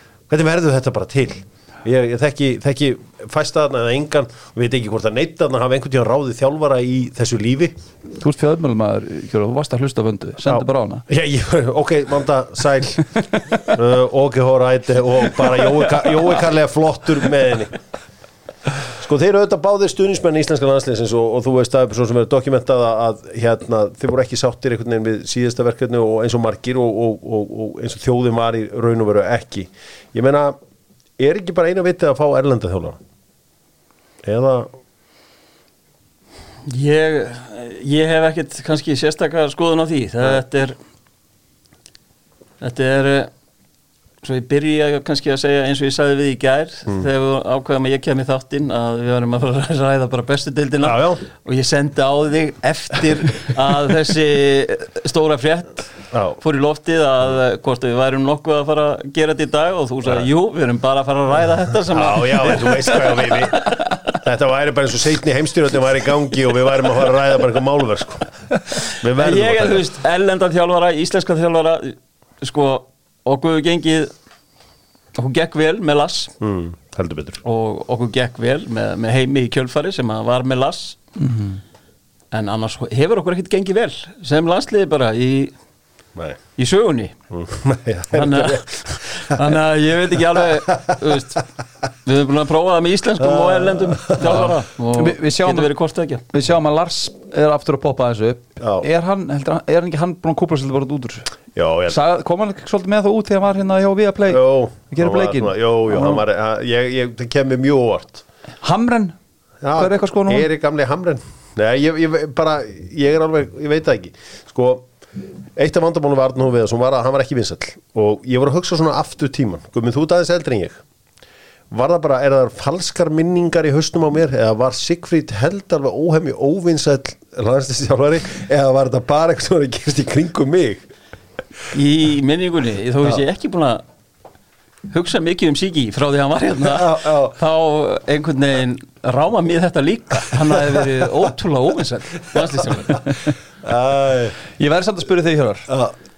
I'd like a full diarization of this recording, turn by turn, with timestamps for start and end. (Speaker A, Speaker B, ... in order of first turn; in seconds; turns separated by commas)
Speaker A: 0.3-7.7, Speaker B: 8.2-11.0, Speaker A: 10.4-13.1, Speaker A: 13.6-17.8, Speaker A: 19.0-30.6, Speaker A: 31.2-33.0, Speaker A: 34.2-34.7, Speaker C: 36.6-40.8, Speaker C: 42.6-43.3, Speaker C: 44.2-55.8, Speaker A: 50.8-51.2, Speaker A: 56.1-56.4, Speaker C: 56.4-63.9, Speaker A: 61.9-68.3, Speaker A: 69.0-69.8, Speaker C: 69.0-74.1, Speaker C: 75.1-76.3, Speaker A: 76.4-77.4, Speaker C: 77.4-81.0, Speaker B: 81.2-81.6, Speaker C: 82.3-85.5, Speaker C: 86.6-87.1, Speaker A: 87.3-88.6, Speaker C: 88.1-91.4, Speaker C: 92.0-96.2, Speaker A: 93.2-94.5, Speaker B: 94.2-95.7, Speaker B: 96.3-101.3, Speaker A: 98.6-98.8, Speaker A: 101.5-102.0, Speaker B: 101.9-106.2, Speaker A: 104.3-108.2, Speaker B: 108.6-109.2, Speaker A: 109.6-114.8, Speaker B: 109.7-110.5, Speaker A: 115.5-120.8, Speaker A: 121.7-130.9, Speaker C: 131.7-133.8, Speaker C: 134.9-143.2, Speaker A: 136.6-137.4, Speaker A: 143.6-144.3, Speaker B: 144.6-145.7, Speaker A: 145.7-145.9